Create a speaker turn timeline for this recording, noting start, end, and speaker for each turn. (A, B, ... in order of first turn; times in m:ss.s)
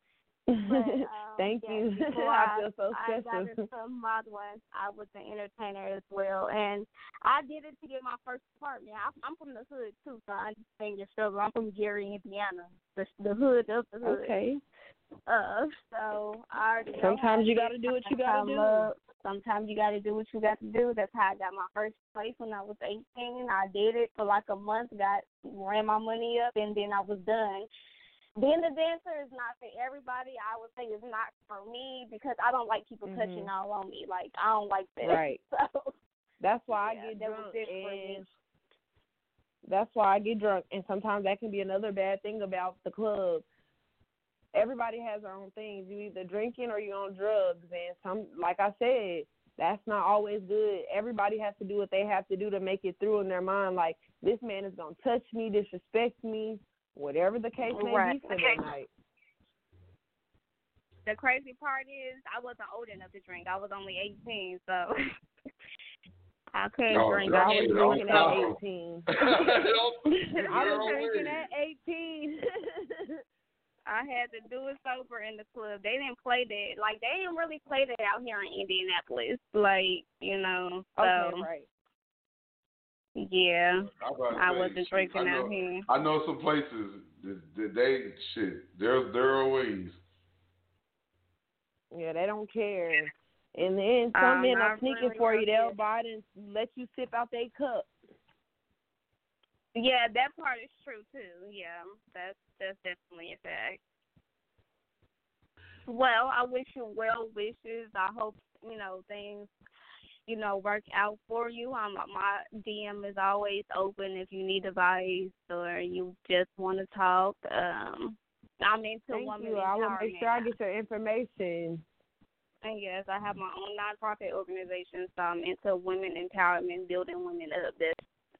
0:00.5-0:03.6 A
0:00.6-0:14.4 B
0:14.1-0:14.4 A
0:15.3-0:27.7 B
0:16.9-0:18.9 A
0:28.4-0:35.9 B
0:33.0-0:33.5 A
0:35.0-0:35.4 A
0:36.4-0:38.3 A
0:36.7-0:38.2 B
0:39.6-0:43.4 A
0:44.5-0:58.9 A
0:57.7-0:58.6 B
1:01.0-1:04.9 B
1:06.5-1:08.5 B
1:06.9-1:08.6 C
1:07.2-1:09.0 A
1:09.1-1:11.5 C
1:10.4-1:13.2 A
1:10.5-1:11.4 B
1:13.9-1:21.5 B
1:21.0-1:21.7 A
1:23.2-1:25.8 B
1:23.9-1:30.0 C
1:31.9-1:37.9 A
1:34.1-1:35.8 B
1:39.7-1:43.8 B
1:45.8-1:49.5 B
1:50.3-2:00.5 B
1:59.1-2:01.8 A
2:02.6-2:08.0 B